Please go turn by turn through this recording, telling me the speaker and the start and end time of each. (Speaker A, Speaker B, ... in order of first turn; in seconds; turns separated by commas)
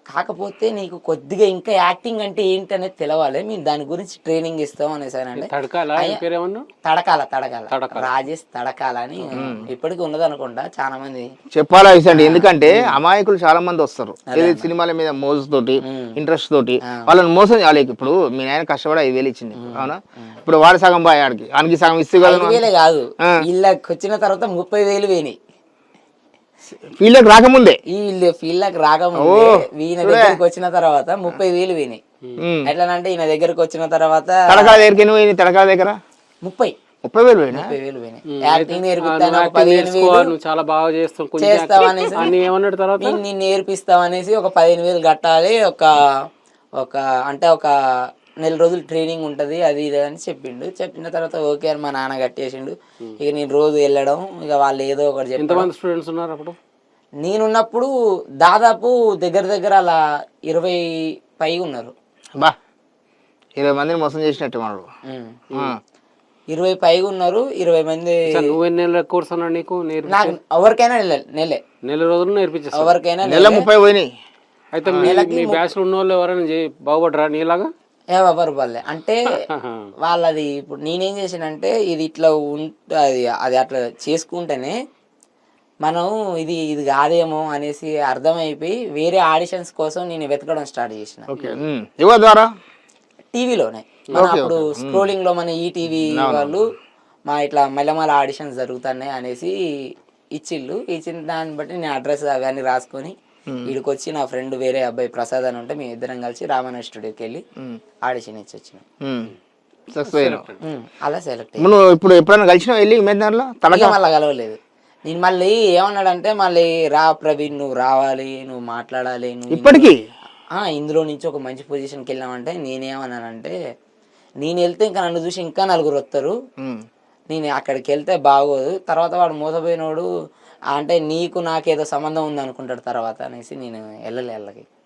Speaker A: 0.1-6.2, Speaker B: 5.4-6.7, Speaker A: 6.8-11.3, Speaker B: 7.7-8.1, Speaker C: 9.3-9.7, Speaker C: 11.5-22.6, Speaker A: 12.1-12.9, Speaker A: 14.3-14.7, Speaker A: 15.8-16.2, Speaker A: 16.9-17.1, Speaker A: 19.6-20.4, Speaker A: 22.2-25.4, Speaker C: 26.9-27.8, Speaker A: 27.9-32.0, Speaker C: 29.2-30.4, Speaker C: 32.4-32.7, Speaker A: 32.6-34.9, Speaker C: 34.5-36.0, Speaker A: 36.4-36.8, Speaker C: 37.0-37.7, Speaker A: 37.5-40.3, Speaker B: 38.3-43.2, Speaker A: 41.4-42.4, Speaker A: 43.0-46.0, Speaker A: 46.8-47.7, Speaker A: 48.4-55.7, Speaker B: 55.4-56.6, Speaker A: 57.2-57.9, Speaker A: 58.4-61.9, Speaker C: 63.6-64.9, Speaker A: 65.1-65.4, Speaker C: 65.5-65.8, Speaker A: 66.5-68.2, Speaker B: 68.3-70.4, Speaker A: 70.0-71.6, Speaker B: 71.8-73.0, Speaker A: 72.7-73.7, Speaker C: 73.2-74.1, Speaker B: 74.7-77.7, Speaker C: 74.9-75.2, Speaker A: 75.0-75.6, Speaker A: 78.1-79.4, Speaker B: 79.4-79.9, Speaker A: 80.0-84.8, Speaker A: 85.8-91.3, Speaker C: 91.3-92.5, Speaker A: 93.3-96.7, Speaker C: 94.1-95.1, Speaker C: 96.1-96.6, Speaker A: 97.3-99.5, Speaker A: 100.3-107.4, Speaker A: 108.0-108.8, Speaker C: 109.0-109.3, Speaker C: 109.9-110.4, Speaker B: 110.0-110.6, Speaker A: 110.6-111.7, Speaker C: 111.6-114.0, Speaker A: 113.7-119.9, Speaker C: 119.5-120.0, Speaker A: 120.5-123.5, Speaker A: 124.4-126.4, Speaker C: 126.6-126.8, Speaker A: 127.3-130.1, Speaker A: 130.7-134.7